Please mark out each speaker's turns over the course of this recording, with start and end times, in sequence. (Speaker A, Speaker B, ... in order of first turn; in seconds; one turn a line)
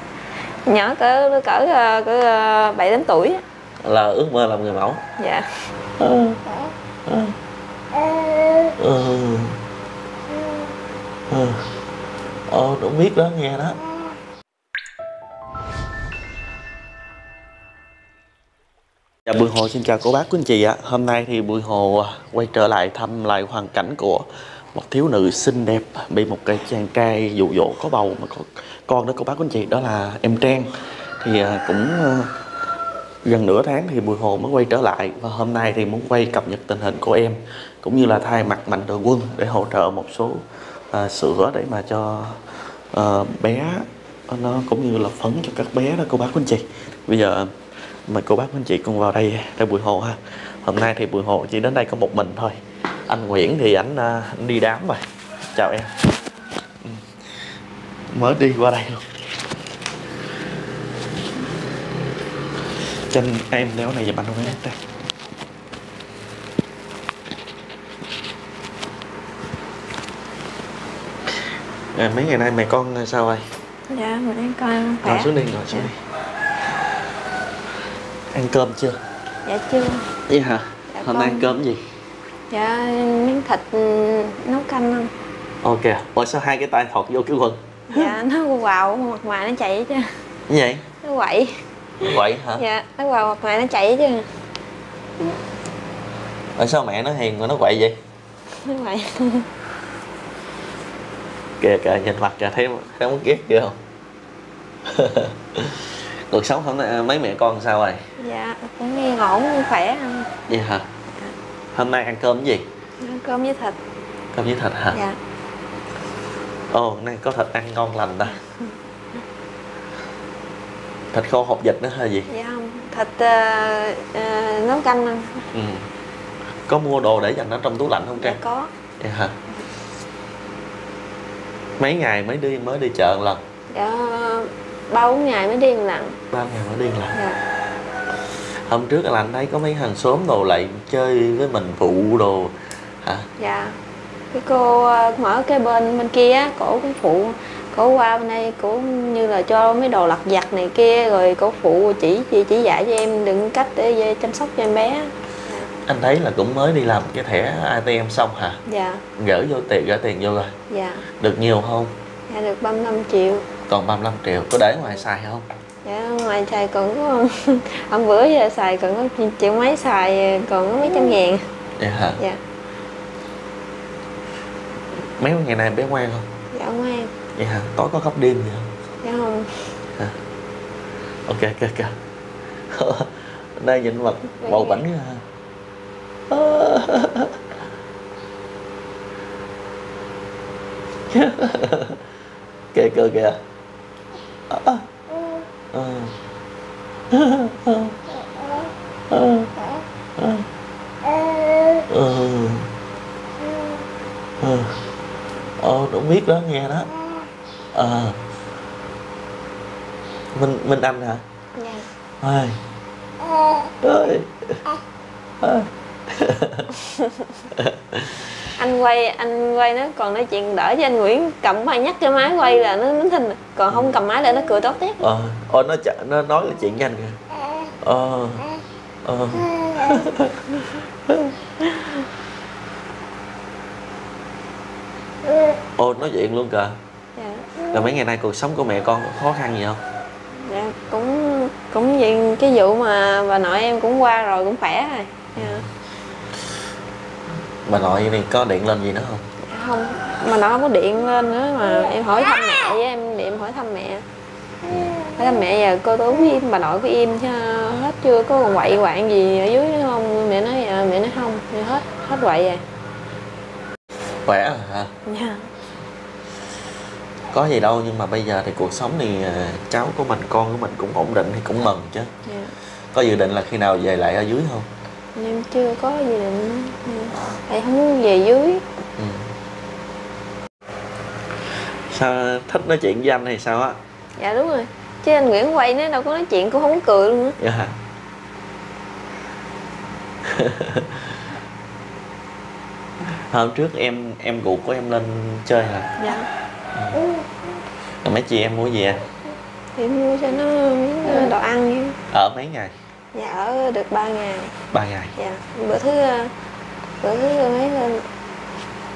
Speaker A: 0.7-3.4
Speaker B: 3.8-5.0
Speaker A: 5.2-5.7
Speaker B: 6.0-6.4
Speaker B: 7.1-7.4
Speaker B: 8.8-9.6
Speaker B: 11.3-11.7
Speaker B: 12.5-13.8
Speaker B: 19.3-32.3
Speaker B: 33.2-47.6
Speaker B: 48.1-52.6
Speaker B: 53.1-55.0
Speaker B: 55.5-56.0
Speaker B: 56.8-57.1
Speaker B: 58.1-59.0
Speaker B: 63.1-64.8
Speaker B: 71.9-73.5
Speaker A: 73.9-75.9
Speaker B: 75.0-76.0
Speaker B: 78.3-79.0
Speaker A: 79.5-80.1
Speaker B: 80.3-81.8
Speaker A: 80.9-81.5
Speaker A: 82.5-85.1
Speaker B: 85.6-88.2
Speaker A: 87.9-90.1
Speaker B: 90.5-90.9
Speaker A: 91.0-94.3
Speaker B: 92.0-92.6
Speaker B: 96.6-98.0
Speaker A: 98.5-99.5
Speaker B: 101.6-103.8
Speaker B: 104.9-108.0
Speaker A: 108.2-110.3
Speaker B: 110.5-110.9
Speaker B: 111.8-112.7
Speaker A: 113.0-113.8
Speaker B: 114.3-115.0
Speaker A: 114.9-115.2
Speaker B: 116.7-118.4
Speaker A: 118.4-118.7
Speaker B: 121.1-122.3
Speaker A: 122.3-125.5
Speaker B: 125.5-125.9
Speaker B: 126.7-128.4
Speaker A: 128.2-128.7
Speaker B: 129.0-129.3
Speaker B: 131.8-133.4
Speaker A: 133.7-136.2
Speaker B: 136.3-137.2
Speaker A: 137.1-137.4
Speaker B: 138.7-143.3
Speaker A: 143.4-143.8
Speaker A: 144.3-155.7
Speaker B: 155.9-158.6
Speaker A: 158.7-159.0
Speaker B: 159.2-160.5
Speaker A: 160.7-161.1
Speaker B: 161.2-161.9
Speaker A: 162.3-163.5
Speaker B: 163.7-165.4
Speaker A: 165.8-171.4
Speaker B: 171.8-172.2
Speaker B: 175.2-176.3
Speaker A: 176.5-177.1
Speaker B: 177.4-178.7
Speaker A: 179.0-179.7
Speaker B: 181.3-182.0
Speaker B: 182.7-185.2
Speaker A: 184.3-184.8
Speaker B: 186.3-187.5
Speaker B: 191.1-192.0
Speaker B: 192.7-193.4
Speaker B: 194.5-194.9
Speaker B: 195.7-196.2
Speaker B: 197.1-198.0
Speaker B: 199.1-199.5
Speaker B: 200.2-200.5
Speaker B: 201.9-202.7
Speaker B: 204.4-204.8
Speaker B: 205.6-206.9
Speaker B: 207.8-208.2
Speaker B: 210.3-211.2
Speaker A: 211.6-211.9
Speaker B: 212.2-212.6
Speaker B: 213.8-214.7
Speaker B: 215.4-216.7
Speaker A: 216.8-217.4
Speaker B: 217.5-218.4
Speaker A: 218.6-225.0
Speaker B: 223.7-223.9
Speaker B: 225.0-227.2
Speaker B: 227.8-231.4
Speaker B: 235.8-236.8
Speaker A: 237.2-237.5
Speaker B: 237.7-239.8
Speaker A: 240.4-245.6
Speaker B: 245.3-245.7
Speaker B: 247.7-249.2
Speaker A: 249.5-254.0
Speaker B: 254.7-255.0
Speaker A: 255.1-262.6
Speaker B: 264.2-264.9
Speaker A: 265.1-265.5
Speaker B: 267.3-272.1
Speaker A: 272.3-272.5
Speaker B: 272.9-274.7
Speaker A: 275.1-278.6
Speaker B: 279.0-279.3
Speaker B: 281.9-283.8
Speaker A: 284.2-287.4
Speaker B: 287.4-287.8
Speaker B: 290.2-291.2
Speaker B: 293.1-296.0
Speaker A: 296.0-296.3
Speaker B: 296.8-297.0
Speaker B: 298.0-299.0
Speaker A: 299.8-302.0
Speaker B: 302.1-302.8
Speaker A: 303.1-304.6
Speaker B: 304.7-305.1
Speaker A: 305.2-306.3
Speaker A: 307.0-308.1